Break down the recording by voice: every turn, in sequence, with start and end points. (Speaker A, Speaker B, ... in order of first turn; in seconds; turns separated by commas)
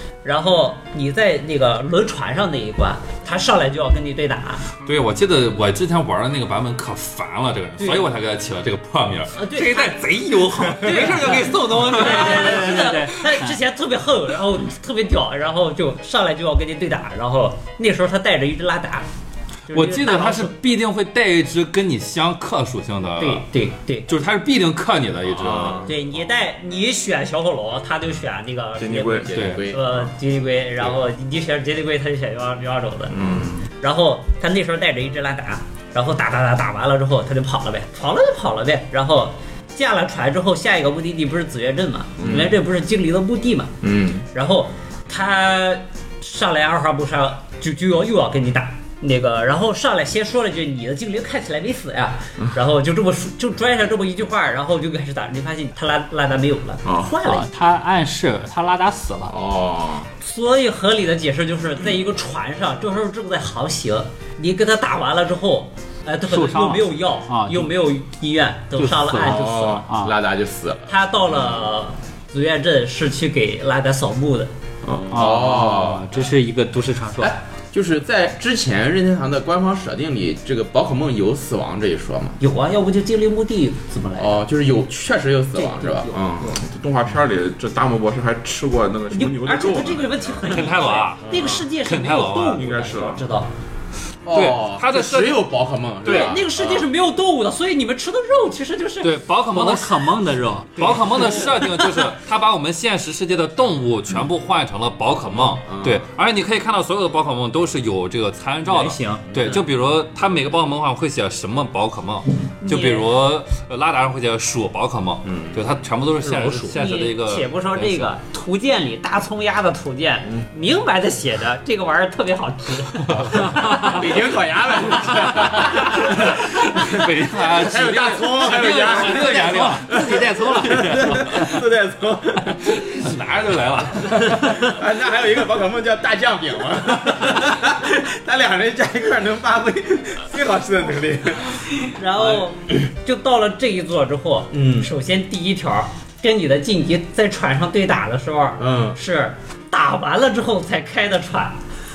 Speaker A: 0.2-4.7, Speaker B: 4.8-13.1, Speaker A: 7.8-8.1, Speaker A: 9.3-10.0, Speaker A: 10.8-19.1, Speaker C: 11.7-13.6, Speaker A: 19.7-20.5, Speaker B: 19.7-23.4, Speaker A: 23.2-24.1, Speaker B: 24.1-25.8, Speaker D: 25.3-25.9, Speaker A: 25.9-33.1, Speaker E: 28.8-29.4, Speaker D: 29.1-30.1, Speaker B: 29.3-29.6, Speaker D: 33.1-33.6, Speaker E: 33.2-33.5, Speaker A: 33.7-43.8, Speaker D: 42.2-42.6, Speaker D: 43.8-44.2, Speaker A: 44.3-57.5, Speaker C: 57.2-59.3, Speaker D: 59.3-60.1, Speaker A: 60.2-69.8, Speaker C: 66.3-67.7, Speaker C: 68.8-70.2, Speaker D: 69.2-71.7, Speaker A: 70.9-74.5, Speaker D: 74.9-76.1, Speaker C: 75.1-77.3, Speaker D: 77.2-82.4, Speaker A: 82.4-84.4, Speaker D: 84.2-86.6, Speaker A: 85.6-86.0, Speaker E: 86.5-90.5, Speaker A: 89.1-93.5, Speaker B: 90.5-92.7, Speaker D: 91.3-91.6, Speaker E: 92.5-93.2, Speaker D: 94.3-96.9, Speaker B: 94.3-95.5, Speaker B: 96.0-96.3, Speaker A: 96.0-99.1, Speaker B: 99.0-100.1, Speaker C: 99.5-101.7, Speaker B: 100.8-118.1, Speaker D: 105.3-106.0, Speaker C: 108.7-109.4, Speaker A: 112.6-113.1, Speaker D: 115.2-115.6, Speaker A: 116.2-124.0, Speaker B: 123.1-123.6, Speaker D: 123.5-132.7, Speaker B: 125.2-131.5, Speaker A: 128.8-129.9, Speaker C: 129.6-131.4, Speaker B: 132.6-134.5, Speaker D: 134.1-142.4, Speaker A: 141.9-151.6, Speaker D: 144.5-144.9, Speaker D: 148.6-149.0